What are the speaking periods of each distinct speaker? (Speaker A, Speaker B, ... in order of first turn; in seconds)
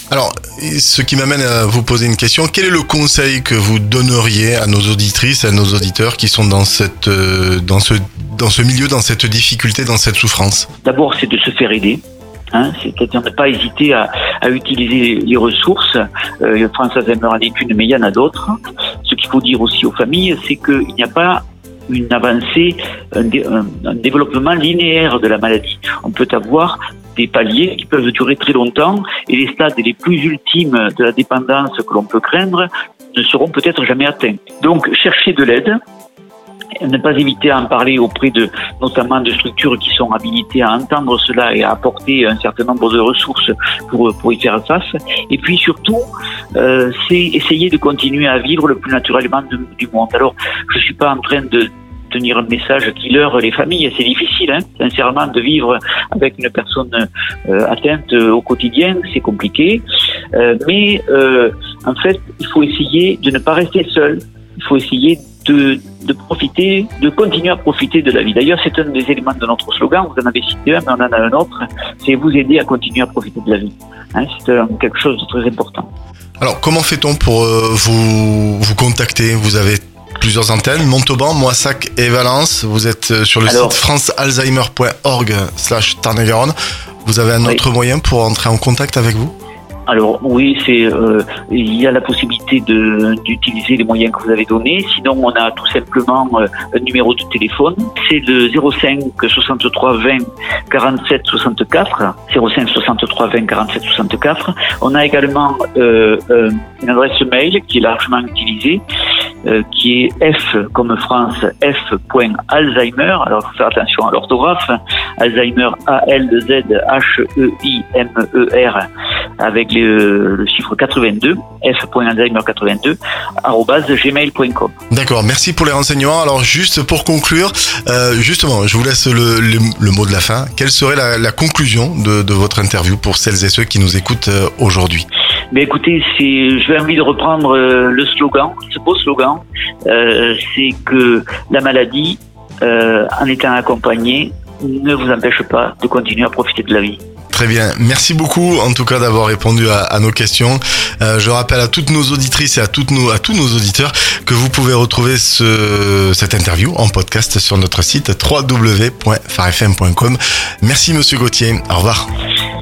Speaker A: 0.1-10.7, 76.4-86.5, 87.0-89.3, 124.9-135.1, 147.3-162.1
Speaker B: 10.8-12.0, 12.5-35.8, 36.8-59.8, 60.3-75.9, 83.5-83.8, 89.9-108.8, 109.4-118.9, 119.4-124.7, 135.5-147.0